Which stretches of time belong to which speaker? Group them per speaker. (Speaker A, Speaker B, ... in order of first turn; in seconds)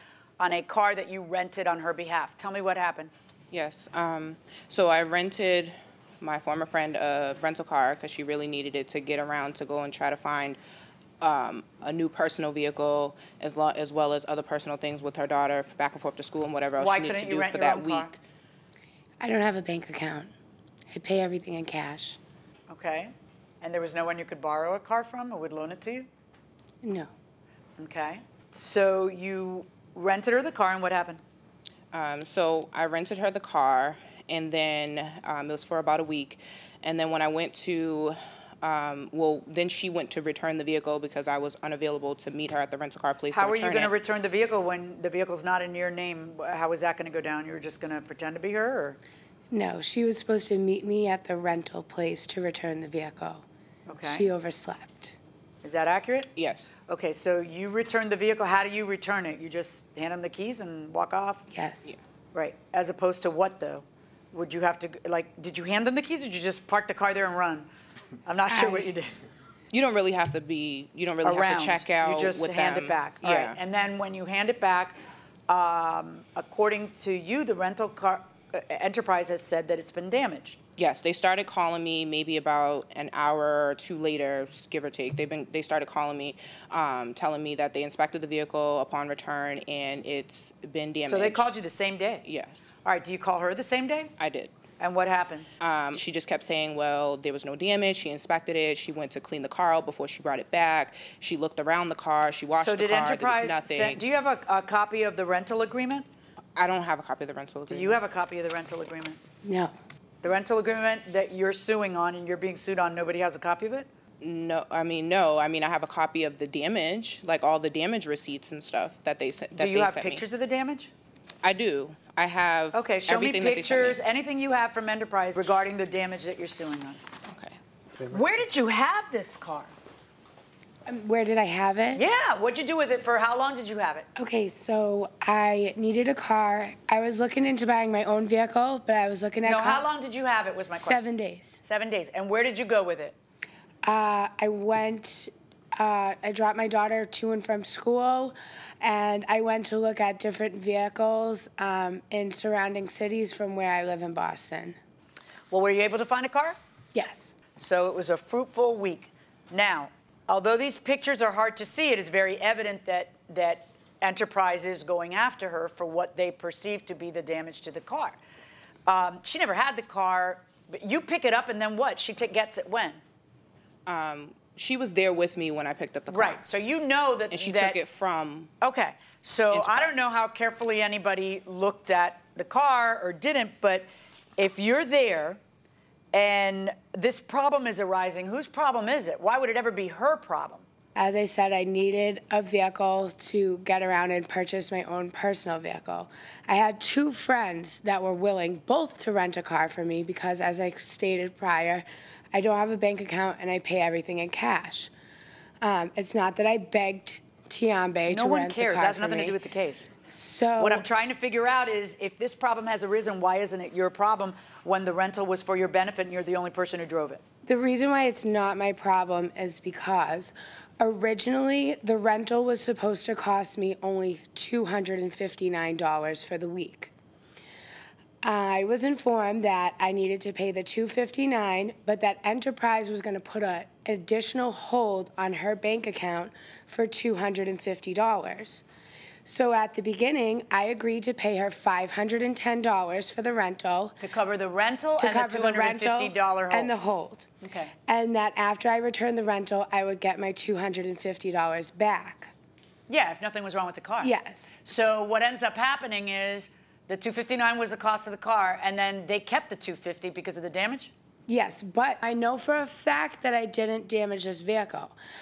Speaker A: 0.4-3.1, 16.8-18.1, 22.7-26.1, 27.8-31.2, 43.3-49.0, 53.9-54.3, 55.6-56.3, 56.9-61.5, 62.3-67.7, 68.2-69.1, 71.2-75.0, 75.5-80.6, 91.1-92.2, 92.8-94.1, 94.8-95.5, 102.6-106.0, 107.7-109.2, 110.2-113.9, 119.5-120.9, 122.7-127.0, 128.0-129.7, 131.9-134.1, 139.4-141.0, 141.6-143.2, 155.5-156.6, 157.6-168.2, 168.8-173.0, 176.1-177.8, 178.6-185.4, 186.1-190.6, 208.1-209.9, 210.6-217.2, 244.0-246.7, 247.4-247.7, 252.9-260.9
Speaker B: 3.5-10.6, 11.2-18.2, 31.9-43.9, 56.4-56.7, 69.7-73.6, 80.8-91.5, 92.2-92.6, 94.2-94.5, 95.6-104.0, 106.5-108.0, 114.2-120.2, 121.4-124.0, 127.3-127.6, 173.8-176.4, 177.3-178.5, 179.5-179.9
Speaker C: 19.2-20.3, 20.9-22.2, 26.8-27.1, 49.5-53.4, 54.0-55.1, 61.5-61.9, 68.5-68.9, 109.4-109.7, 130.9-132.0, 134.2-139.9, 140.7-141.6, 143.8-154.8, 156.9-157.3, 190.9-204.9, 205.6-209.4, 210.1-210.8, 217.4-226.9, 228.2-238.6, 239.2-244.0, 245.0-247.3, 247.9-252.3, 254.0-254.8, 261.3-264.9